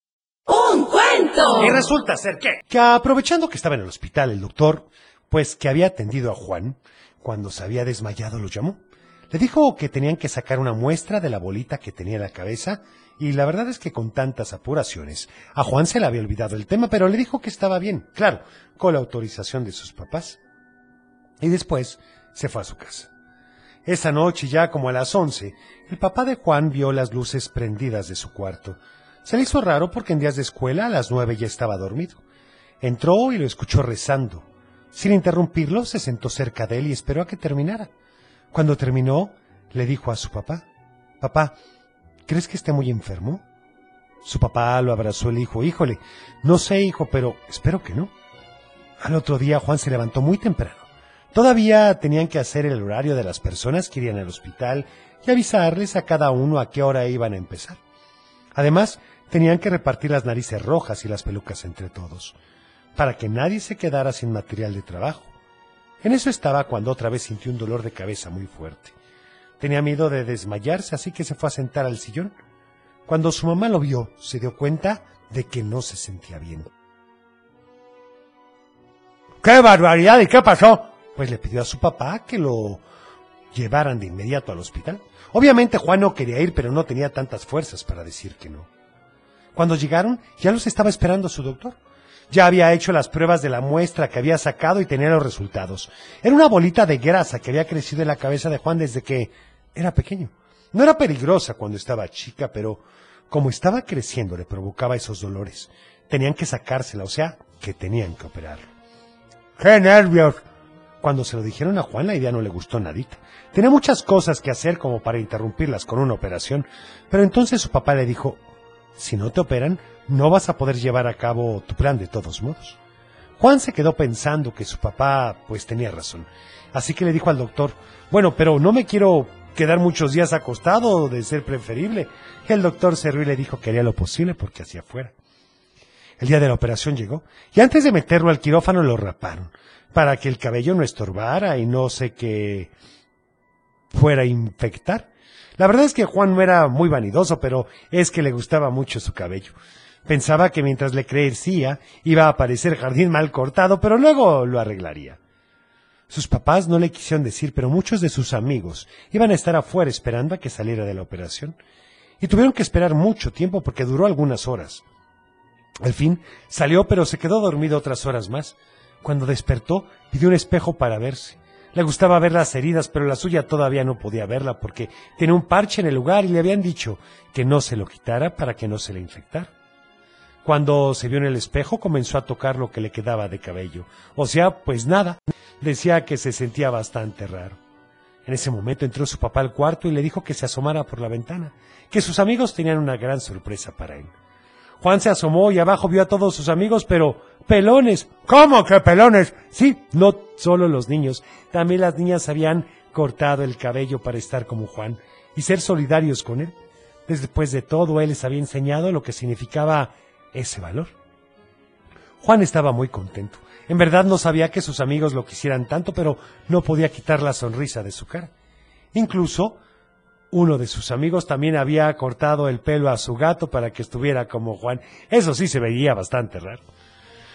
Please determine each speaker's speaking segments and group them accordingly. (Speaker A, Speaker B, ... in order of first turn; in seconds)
Speaker A: 1.6-8.8, 9.3-20.4, 21.4-23.1, 23.9-32.2, 32.8-37.9, 38.5-40.6, 41.2-41.5, 42.3-43.4, 44.2-48.1, 49.0-57.8, 58.5-62.4, 63.0-65.3, 66.0-69.0, 69.6-72.3, 73.1-76.7, 79.4-82.8, 83.5-88.7, 89.5-91.8, 92.3-108.7, 109.6-110.4, 111.0-118.4, 119.0-122.8, 123.4-135.1, 136.2-142.7, 143.9-155.2, 156.1-161.6, 162.2-164.8, 165.8-179.5, 180.4-187.6, 188.3-194.1, 194.8-206.6, 207.1-210.9, 212.2-218.3, 218.9-219.6, 220.3-226.6